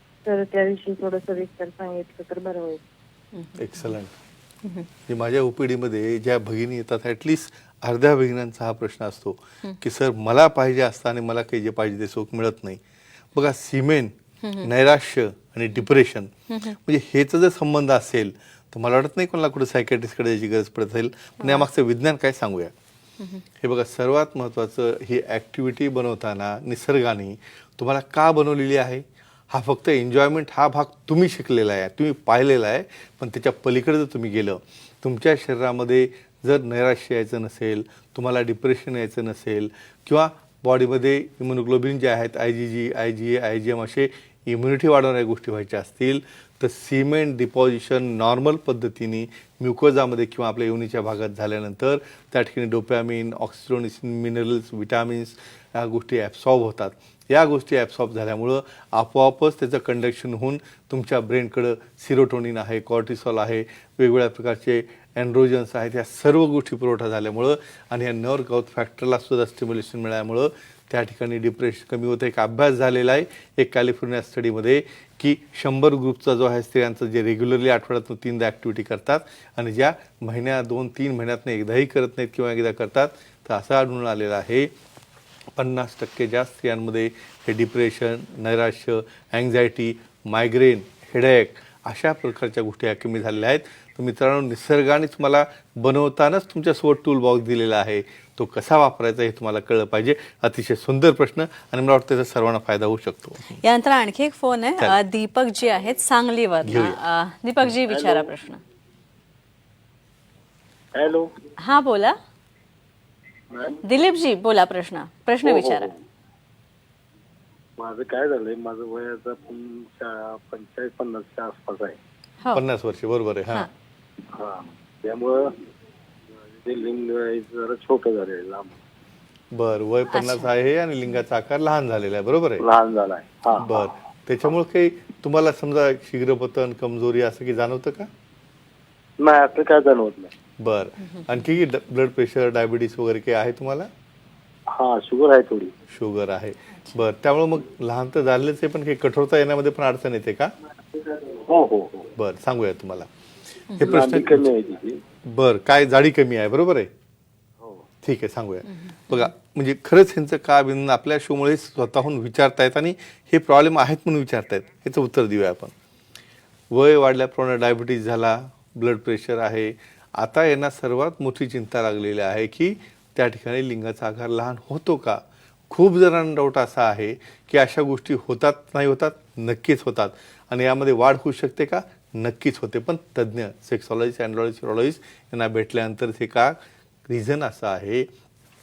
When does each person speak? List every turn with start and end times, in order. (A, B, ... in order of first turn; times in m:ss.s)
0:00.2-0:02.8 A
0:03.4-0:03.9 B
0:03.6-0:04.2 C
0:05.1-0:12.8 C
0:13.3-0:16.3 C
0:14.4-0:14.7 B
0:16.5-0:16.8 B
0:16.8-0:22.7 C
0:21.4-0:21.6 B
0:23.6-1:24.7 C
1:25.6-1:43.6 C
1:43.5-1:48.6 B
1:46.6-1:47.0 C
1:47.9-1:48.3 D
1:50.9-1:51.3 D
1:51.6-1:52.2 B
1:53.5-1:53.8 D
1:53.8-1:55.9 B
1:55.4-1:56.0 D
1:57.8-2:02.0 D
2:02.5-2:03.7 C
2:04.3-2:05.5 D
2:06.5-2:08.8 D
2:09.5-2:12.7 C
2:10.1-2:10.5 B
2:12.6-2:13.9 D
2:13.6-2:18.1 C
2:19.2-2:20.3 D
2:20.6-2:23.9 C
2:24.7-2:25.7 D
2:25.9-2:30.5 C
2:31.1-2:32.1 D
2:32.2-2:33.1 C
2:33.8-2:34.5 C
2:33.8-2:35.0 D
2:35.3-2:36.9 C
2:38.0-2:45.7 C
2:38.7-2:39.3 B
2:46.7-3:08.1 C